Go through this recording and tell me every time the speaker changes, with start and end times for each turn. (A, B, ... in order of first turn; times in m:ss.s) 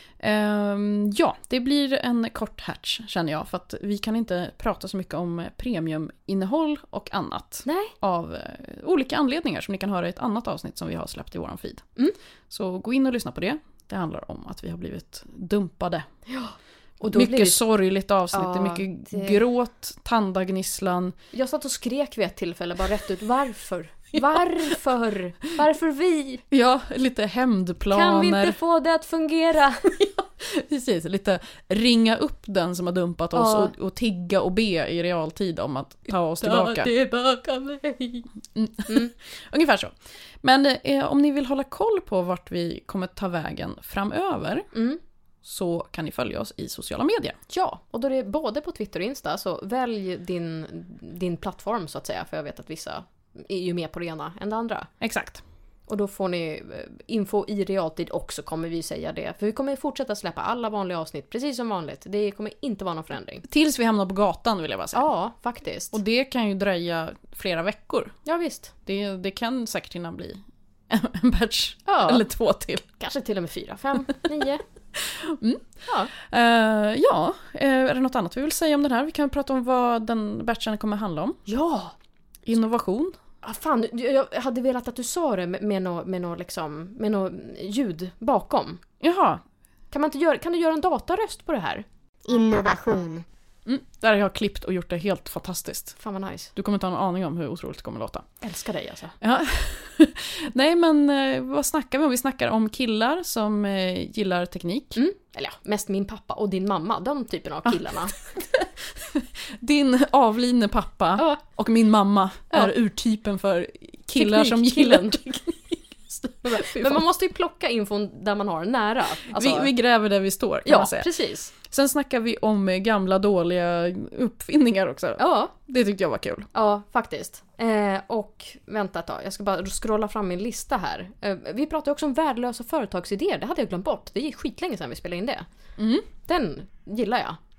0:00.2-0:11.8 A
0:07.6-0:07.9 B
0:12.5-0:16.0 A
0:16.3-0:17.6 B
0:17.1-0:21.1 A
0:18.3-0:19.4 B
0:21.3-0:26.4 B
0:26.5-0:28.6 A
0:27.9-0:30.1 B
0:30.2-0:36.9 A
0:33.3-0:33.7 B
0:36.4-0:38.3 B
0:38.5-0:44.7 A
0:44.7-0:45.0 B
0:45.4-0:47.4 A
0:47.5-0:54.9 B
0:55.0-0:55.4 A
0:55.9-1:03.4 B
1:03.5-1:05.0 A
1:04.9-1:06.0 B
1:05.9-1:08.1 A
1:08.2-1:08.7 B
1:08.8-1:12.8 A
1:11.8-1:12.2 B
1:13.0-1:14.6 B
1:14.9-1:21.4 A
1:21.5-1:21.9 B
1:22.4-1:23.1 A
1:23.4-1:28.8 B
1:29.0-1:29.4 A
1:29.9-1:33.2 B
1:33.6-1:36.0 A
1:36.0-1:36.5 B
1:36.6-1:38.2 A
1:38.4-1:39.2 B
1:39.2-1:45.0 A
1:44.9-1:48.3 B
1:48.3-1:57.0 A
1:54.2-1:55.2 B
1:56.4-1:59.7 B
1:59.2-2:01.1 A
2:00.6-2:01.5 B
2:01.6-2:06.5 A
2:05.2-2:05.5 B
2:06.5-2:15.4 B
2:15.8-2:16.1 A
2:16.2-2:17.4 B